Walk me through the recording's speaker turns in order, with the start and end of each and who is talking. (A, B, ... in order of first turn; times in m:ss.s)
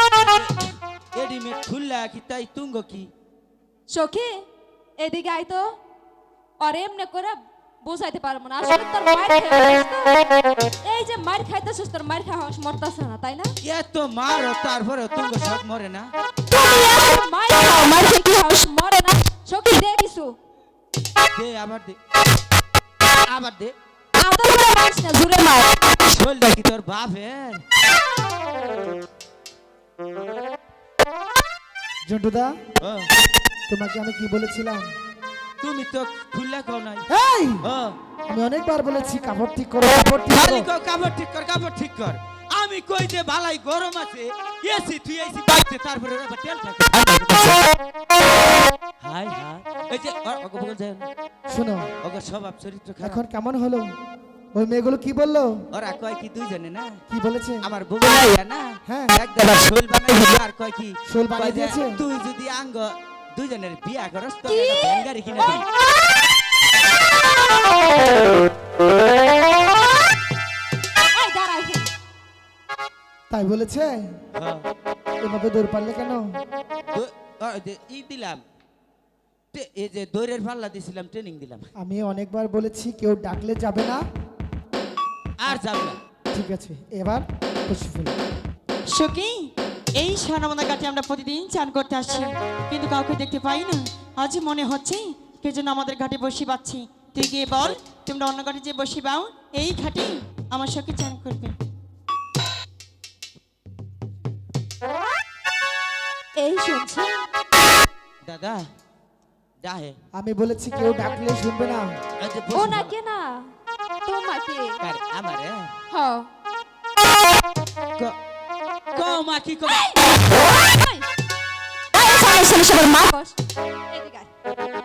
0:00.3-0:03.1 A
0:03.9-0:04.4 B
0:05.0-0:05.7 B
0:06.6-0:10.2 B
0:10.8-0:13.5 B
0:13.6-0:16.1 A
0:16.5-0:20.3 B
0:21.3-0:22.0 A
0:23.3-0:23.7 A
0:24.2-0:25.8 B
0:26.1-0:27.6 A
0:32.0-0:32.6 C
0:32.8-0:33.1 A
0:33.7-0:34.9 C
0:35.6-0:37.1 A
0:37.1-0:37.7 C
0:37.6-0:37.9 A
0:38.3-0:40.7 C
0:40.3-0:47.6 A
0:49.0-0:51.1 A
0:51.5-0:51.9 C
0:52.0-0:53.2 A
0:53.0-0:53.9 C
0:54.5-0:55.6 C
0:55.7-0:57.0 A
0:57.1-0:57.6 C
0:57.6-1:05.6 A
0:58.8-0:59.2 C
1:01.1-1:02.0 C
1:04.5-1:05.6 B
1:11.1-1:11.9 B
1:13.3-1:14.2 C
1:14.4-1:14.6 A
1:15.2-1:16.3 C
1:16.9-1:18.4 A
1:19.5-1:21.7 A
1:21.8-1:24.0 C
1:25.4-1:26.0 A
1:26.3-1:28.2 C
1:28.9-1:41.5 D
1:46.4-1:47.2 B
1:48.2-1:48.6 A
1:49.6-1:50.0 A
1:50.2-1:52.0 C
1:52.2-1:52.9 A
1:52.5-1:53.5 B
1:54.0-1:54.8 B
1:54.8-1:55.7 A
1:55.9-1:56.3 B
1:58.9-2:00.0 A
1:59.9-2:01.1 B
2:01.9-2:03.4 B
2:03.9-2:04.3 B